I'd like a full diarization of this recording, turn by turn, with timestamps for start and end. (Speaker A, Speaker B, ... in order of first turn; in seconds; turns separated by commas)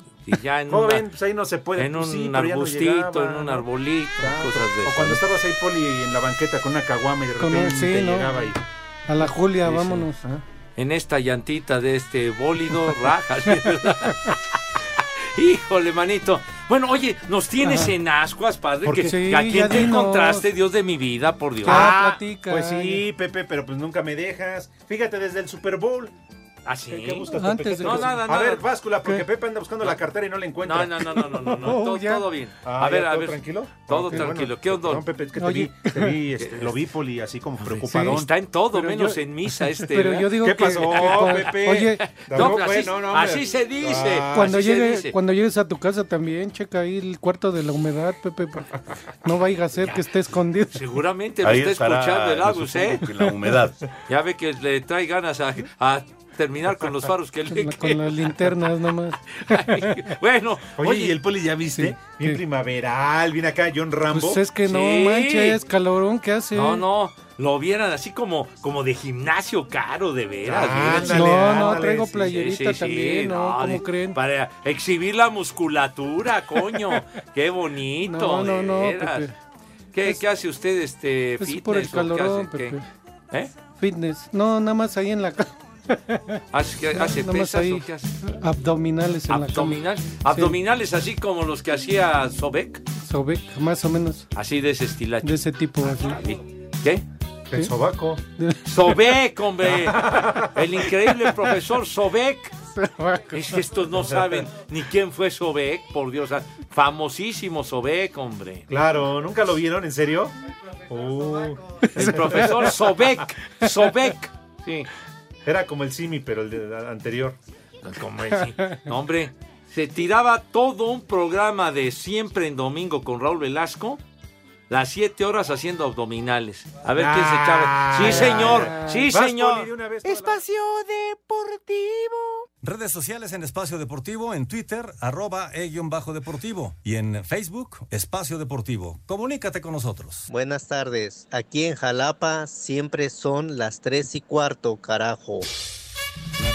Speaker A: 0.3-1.1, Speaker B: 0.7-3.6, Speaker A: 1.8-5.2, Speaker B: 4.2-8.6, Speaker C: 7.4-8.5, Speaker C: 9.1-10.2, Speaker A: 9.7-10.1, Speaker B: 9.7-10.4, Speaker A: 10.8-14.4, Speaker A: 15.0-22.0, Speaker C: 17.6-17.9, Speaker B: 18.9-19.1, Speaker C: 19.0-20.5, Speaker B: 21.6-26.1, Speaker C: 21.6-23.0, Speaker A: 26.7-28.7, Speaker B: 26.9-31.1, Speaker C: 27.3-28.2, Speaker A: 30.6-35.1, Speaker C: 31.2-32.2, Speaker B: 32.6-38.3, Speaker C: 35.4-36.2, Speaker A: 36.4-36.8, Speaker A: 37.6-45.1, Speaker C: 38.7-39.2, Speaker C: 39.8-42.6, Speaker B: 40.4-44.6, Speaker C: 44.3-48.7, Speaker C: 49.2-50.8, Speaker A: 50.7-53.2, Speaker B: 51.5-52.2, Speaker B: 52.9-53.7, Speaker A: 54.1-58.5, Speaker C: 57.5-60.0, Speaker A: 59.4-61.2, Speaker B: 60.8-64.4, Speaker C: 61.7-62.4, Speaker C: 64.1-66.8, Speaker A: 64.6-65.6, Speaker A: 66.5-79.3, Speaker B: 70.5-72.2, Speaker C: 71.0-74.2, Speaker C: 78.1-79.3, Speaker A: 79.9-82.8, Speaker C: 81.4-82.8, Speaker C: 83.8-86.4, Speaker A: 86.5-88.1, Speaker C: 86.9-89.8, Speaker A: 89.3-92.8, Speaker C: 90.3-90.6, Speaker C: 93.0-94.3, Speaker A: 94.3-97.0, Speaker C: 95.2-96.2, Speaker B: 97.5-98.2, Speaker A: 98.7-102.5, Speaker B: 99.7-100.5, Speaker C: 102.8-103.5, Speaker A: 103.3-108.7, Speaker B: 108.7-110.3, Speaker B: 110.9-112.7, Speaker A: 111.9-114.9, Speaker C: 112.0-112.4, Speaker B: 115.5-117.4, Speaker A: 117.8-124.0, Speaker A: 124.7-129.7, Speaker B: 126.9-130.5, Speaker C: 128.1-129.1, Speaker D: 132.6-140.3, Speaker E: 140.3-145.5